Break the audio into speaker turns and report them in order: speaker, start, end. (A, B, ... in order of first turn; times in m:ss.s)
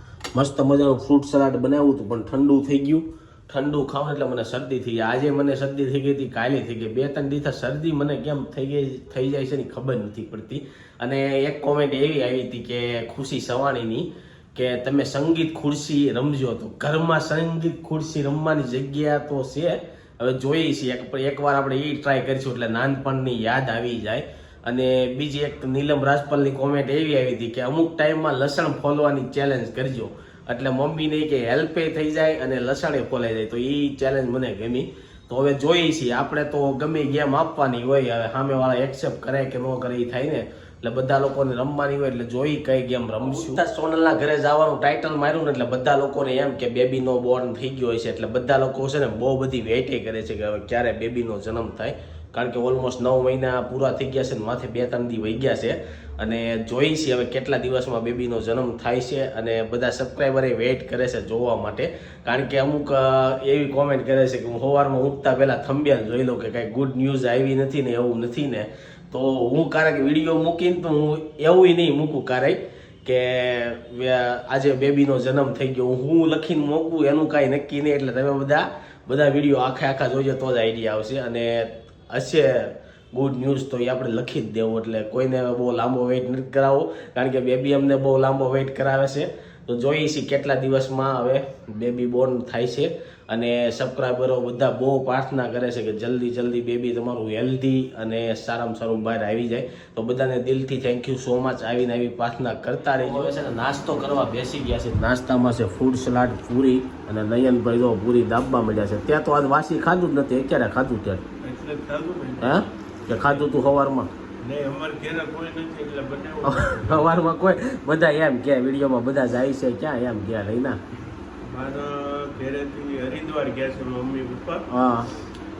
0:00.3-1:51.2 A
1:43.0-1:43.3 B
1:51.4-1:53.5 B
1:52.4-1:54.1 A
1:54.4-1:57.3 B
1:56.4-2:00.8 A
2:01.4-2:04.6 B
2:04.7-2:05.1 A